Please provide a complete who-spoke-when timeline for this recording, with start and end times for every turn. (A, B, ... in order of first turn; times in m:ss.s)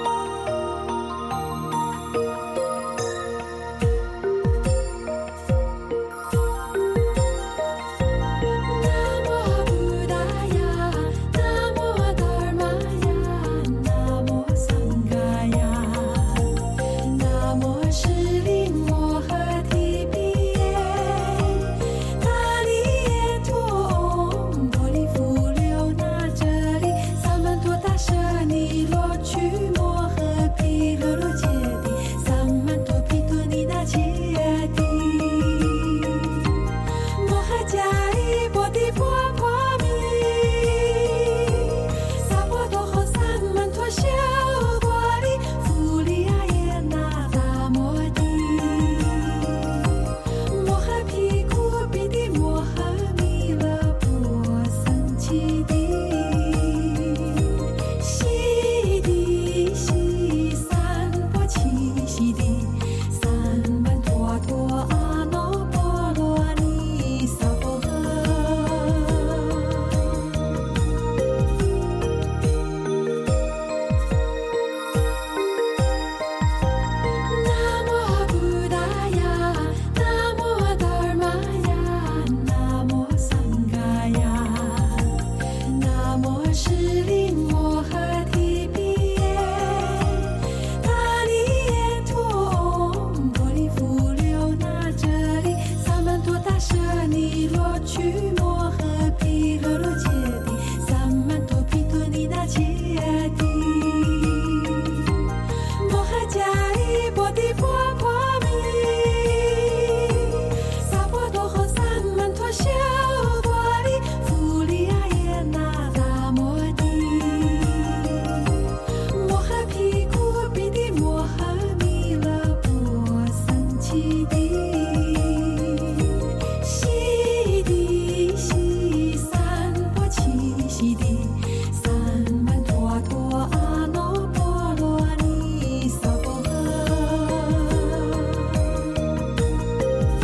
0:08.7-1:09.9 A
1:17.3-2:18.3 A